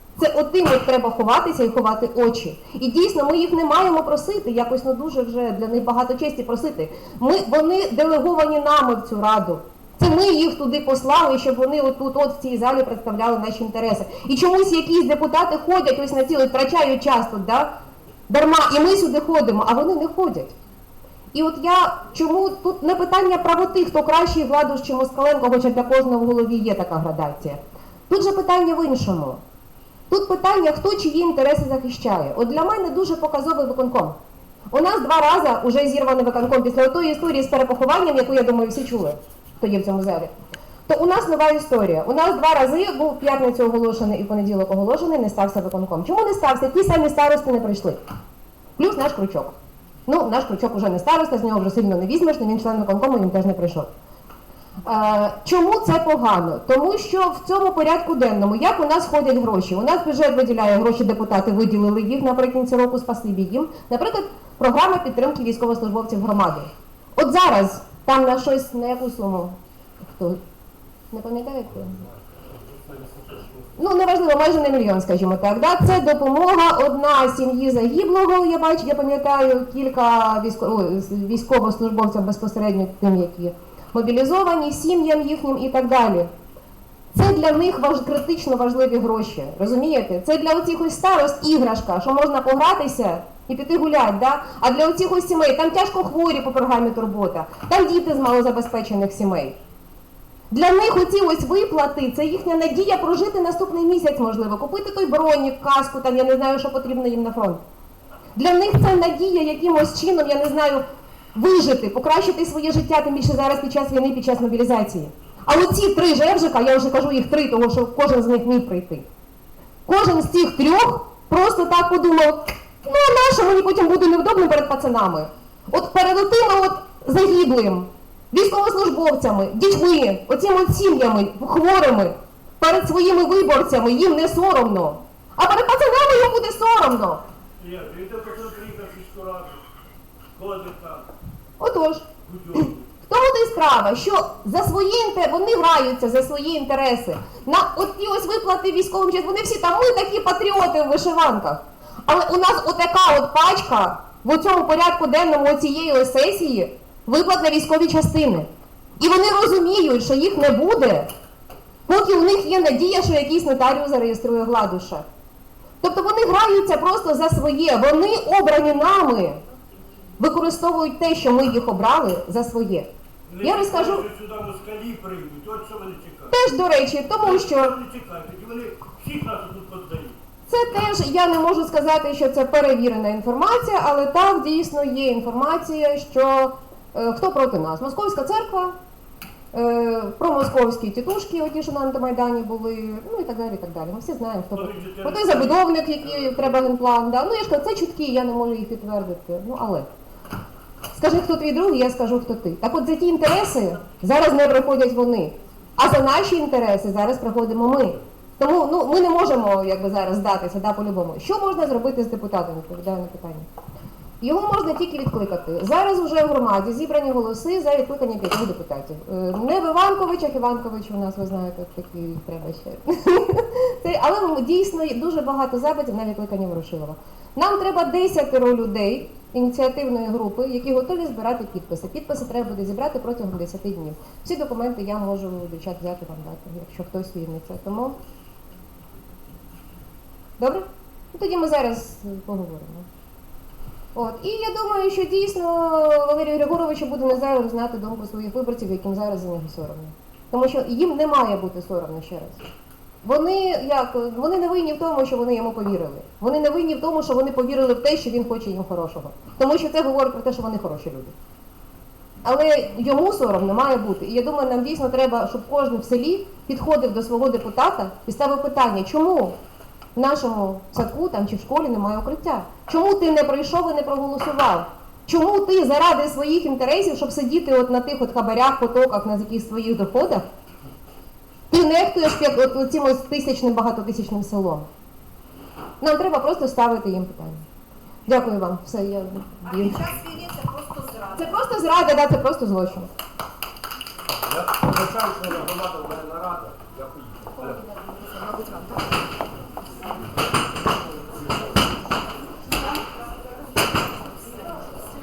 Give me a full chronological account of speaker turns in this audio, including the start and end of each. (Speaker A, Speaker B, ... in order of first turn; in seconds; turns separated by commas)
Speaker A: 0.2-17.7, Speaker A: 18.3-20.5, Speaker A: 21.3-29.4, Speaker A: 30.1-34.2, Speaker A: 34.7-40.3, Speaker A: 40.9-48.0, Speaker A: 48.8-49.5, Speaker A: 50.1-53.9, Speaker A: 54.8-70.4, Speaker A: 71.1-72.0, Speaker B: 72.9-73.4, Speaker A: 73.8-86.3, Speaker A: 87.1-99.6, Speaker A: 100.5-107.6, Speaker A: 108.3-119.0, Speaker A: 119.8-137.2, Speaker B: 137.6-139.6, Speaker B: 140.3-141.1, Speaker A: 141.6-161.1, Speaker B: 142.2-142.9, Speaker A: 161.9-165.0, Speaker A: 165.8-169.4, Speaker A: 170.2-172.9, Speaker B: 173.3-176.3, Speaker A: 173.4-174.1, Speaker A: 176.3-177.7, Speaker B: 177.2-180.2, Speaker A: 180.5-188.8, Speaker A: 189.5-199.9, Speaker B: 194.5-196.5, Speaker A: 200.9-213.4, Speaker A: 214.2-238.0, Speaker A: 240.4-242.9, Speaker A: 243.9-252.5, Speaker A: 253.0-261.1, Speaker A: 262.2-269.4, Speaker A: 269.9-280.3, Speaker A: 281.5-284.7, Speaker A: 285.8-287.4, Speaker A: 288.1-289.8, Speaker C: 289.4-291.4, Speaker A: 291.1-292.9, Speaker B: 294.2-297.5, Speaker C: 297.4-298.8, Speaker C: 302.4-304.8